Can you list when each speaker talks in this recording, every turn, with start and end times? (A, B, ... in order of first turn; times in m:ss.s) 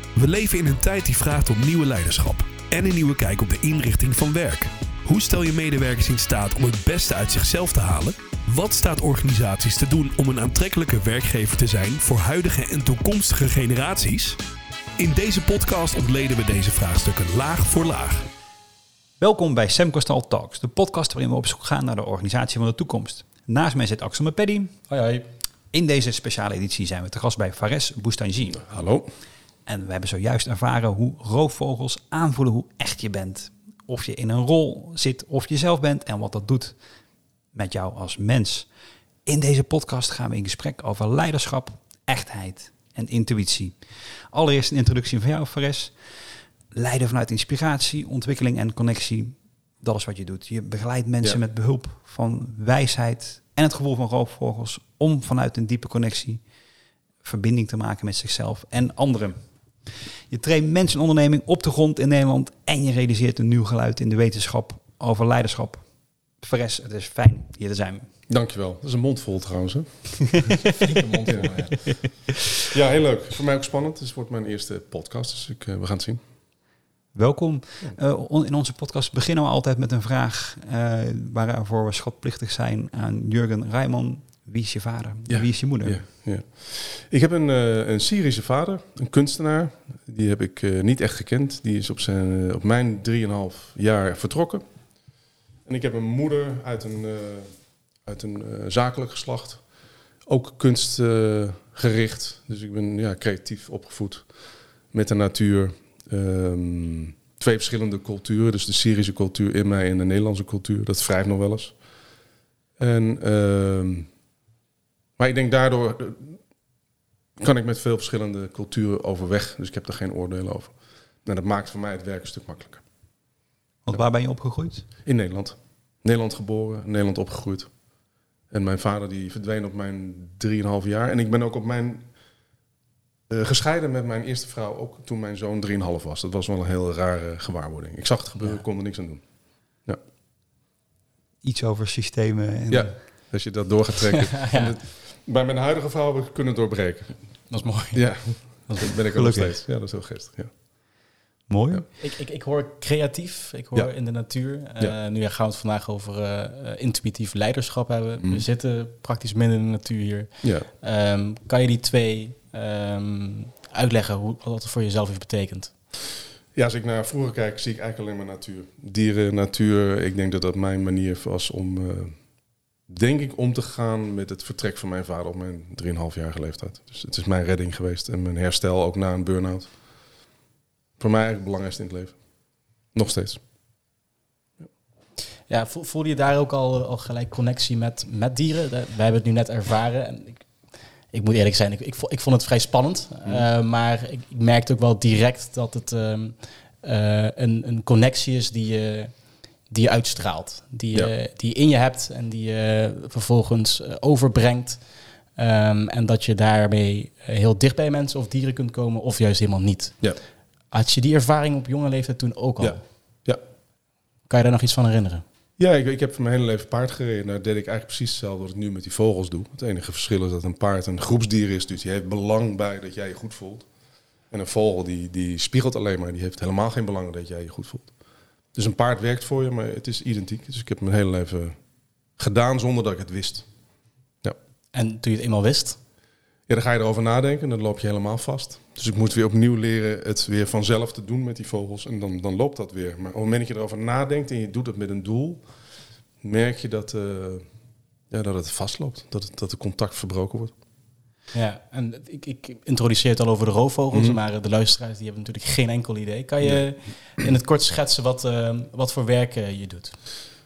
0:00.2-0:14.4 A
0:15.0-0:18.2 A
0:19.2-0:24.7 B
0:24.9-0:25.3 C
0:25.7-0:28.7 B
0:28.6-0:29.1 D
0:29.7-0:36.8 B
0:37.5-0:38.7 B
0:39.3-0:46.0 B
0:46.7-0:56.4 B
0:57.2-0:59.4 B
1:00.3-1:08.1 B
1:08.3-1:10.6 D
1:10.8-1:11.8 C
1:12.7-1:16.2 D
1:17.1-1:26.0 B
1:25.3-1:34.6 D
1:35.7-1:37.5 D
1:38.0-1:39.6 D
1:40.3-1:44.3 D
1:44.9-1:51.8 D
1:52.8-1:54.1 D
1:55.2-1:56.4 D
1:57.4-2:02.8 D
2:03.9-2:04.9 B
2:05.0-2:07.7 D
2:08.5-2:12.1 D
2:13.3-2:19.2 D
2:21.4-2:23.0 B
2:22.7-2:27.2 D
2:24.4-2:24.8 C
2:27.5-2:28.9 C
2:27.9-2:30.5 D
2:29.2-2:29.6 B
2:31.5-2:31.9 B
2:32.0-2:45.7 C
2:40.4-2:40.7 D
2:46.5-2:52.2 D
2:52.9-2:59.7 D
3:01.0-3:02.2 D
3:02.9-3:03.4 D
3:05.5-3:10.5 C
3:11.1-3:24.8 C
3:25.3-3:30.1 C
3:30.7-3:32.8 C
3:32.6-3:33.4 D
3:34.3-3:35.2 C
3:35.6-3:43.7 D
3:44.3-3:47.9 D
3:48.5-3:51.6 D
3:52.2-3:53.5 D
3:54.7-3:55.8 C
3:56.5-4:05.4 D
4:06.2-4:07.5 D
4:08.1-4:10.5 D
4:11.3-4:20.0 C
4:13.9-4:14.2 D